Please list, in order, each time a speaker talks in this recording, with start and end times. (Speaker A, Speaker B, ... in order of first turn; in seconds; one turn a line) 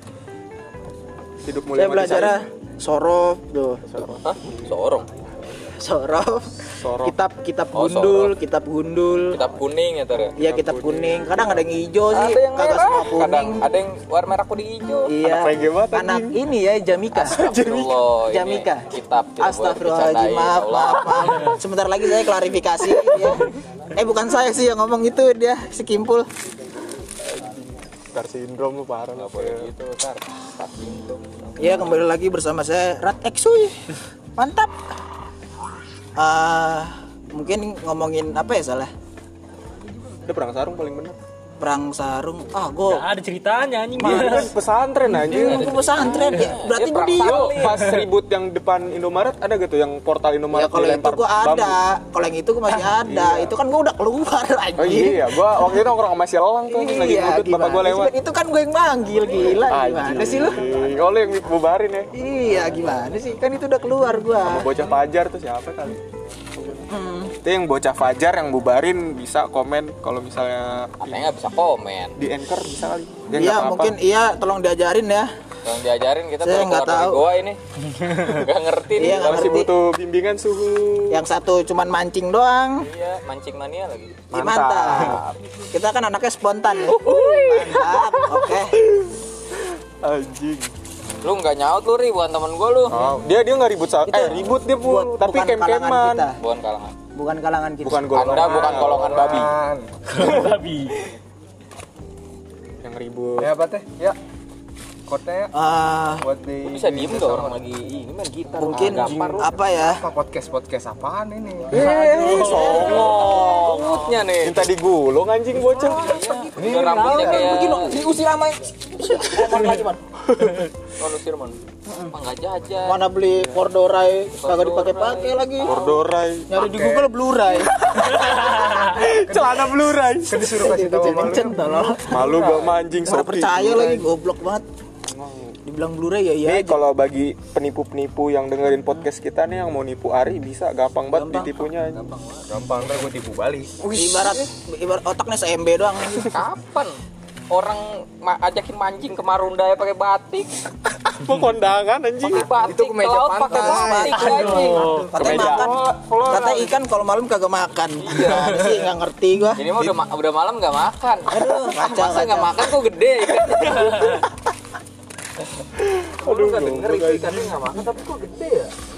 Speaker A: 1.4-2.4
Speaker B: 1.8-3.9
Speaker A: 3.9-4.5
Speaker C: 4.1-5.1
Speaker B: 5.6-9.4
Speaker A: 6.8-7.2
Speaker C: 7.7-8.3
Speaker C: 9.3-10.3
Speaker A: 10.4-11.6
Speaker B: 10.4-13.7
Speaker C: 12.1-15.1
Speaker B: 15.1-17.4
Speaker A: 15.2-16.4
Speaker A: 17.1-17.9
Speaker C: 17.2-21.5
Speaker B: 18.2-18.9
Speaker B: 19.4-26.3
Speaker A: 27.2-29.7
Speaker C: 29.1-31.9
Speaker B: 31.6-33.8
Speaker B: 34.4-34.7
Speaker B: 36.1-38.9
Speaker A: 40.2-41.2
Speaker B: 41.6-43.0
Speaker D: 42.9-44.5
Speaker A: 44.0-46.2
Speaker B: 44.0-44.5
Speaker B: 45.2-47.5
Speaker C: 45.3-47.9
Speaker A: 47.2-51.8
Speaker D: 47.7-48.0
Speaker B: 50.5-55.2
Speaker A: 53.0-53.5
Speaker A: 54.8-58.1
Speaker B: 56.7-60.6
Speaker A: 59.4-62.1
Speaker B: 62.1-64.7
Speaker A: 64.4-66.0
Speaker A: 66.5-66.9
Speaker B: 66.9-67.3
Speaker A: 67.4-71.2
Speaker C: 71.0-72.2
Speaker A: 72.2-74.0
Speaker B: 73.4-75.3
Speaker C: 75.6-79.6
Speaker B: 76.4-77.2
Speaker B: 78.9-79.7
Speaker A: 79.0-81.2
Speaker B: 81.1-82.9
Speaker C: 82.8-84.2
Speaker A: 84.3-85.2
Speaker B: 84.3-88.8
Speaker C: 84.9-85.3
Speaker C: 86.8-88.3
Speaker A: 88.8-90.7
Speaker C: 91.2-93.0
Speaker A: 92.9-96.3
Speaker B: 94.1-96.3
Speaker C: 96.4-97.0
Speaker B: 97.1-98.2
Speaker A: 97.8-99.5
Speaker C: 98.1-99.5
Speaker E: 98.2-100.5
Speaker D: 100.1-101.0
Speaker A: 102.8-103.5
Speaker E: 103.4-104.2
Speaker E: 105.0-105.5
Speaker B: 105.5-106.2
Speaker E: 106.2-109.0
Speaker C: 106.6-109.5
Speaker B: 108.6-110.0
Speaker A: 108.7-109.4
Speaker E: 109.8-112.8
Speaker A: 111.7-113.6
Speaker C: 111.7-114.7
Speaker D: 112.3-112.7
Speaker B: 112.3-114.0
Speaker A: 114.4-116.2
Speaker C: 115.7-118.0
Speaker B: 116.3-120.0
Speaker E: 116.5-117.7
Speaker A: 120.2-120.7
Speaker C: 121.0-123.1
Speaker B: 122.8-125.8
Speaker C: 124.3-126.0
Speaker A: 125.6-126.5
Speaker B: 126.5-129.0
Speaker E: 126.5-127.1
Speaker A: 127.9-130.6
Speaker E: 129.0-129.7
Speaker E: 130.2-132.8
Speaker B: 130.6-132.2
Speaker A: 132.1-134.1
Speaker B: 133.0-134.6
Speaker A: 135.1-135.6
Speaker B: 135.6-136.8
Speaker A: 136.4-142.0
Speaker B: 141.1-141.7
Speaker C: 141.9-142.4
Speaker E: 142.4-143.9
Speaker B: 143.8-146.4
Speaker C: 146.2-147.0
Speaker C: 147.5-150.5
Speaker A: 151.0-152.5
Speaker C: 152.2-155.0
Speaker E: 152.6-156.8
Speaker B: 153.5-159.6
Speaker D: 153.9-155.1
Speaker A: 155.1-155.8
Speaker C: 158.0-158.8
Speaker C: 159.6-164.2
Speaker B: 161.3-162.7
Speaker A: 165.8-167.6
Speaker E: 166.3-168.7
Speaker C: 166.3-167.9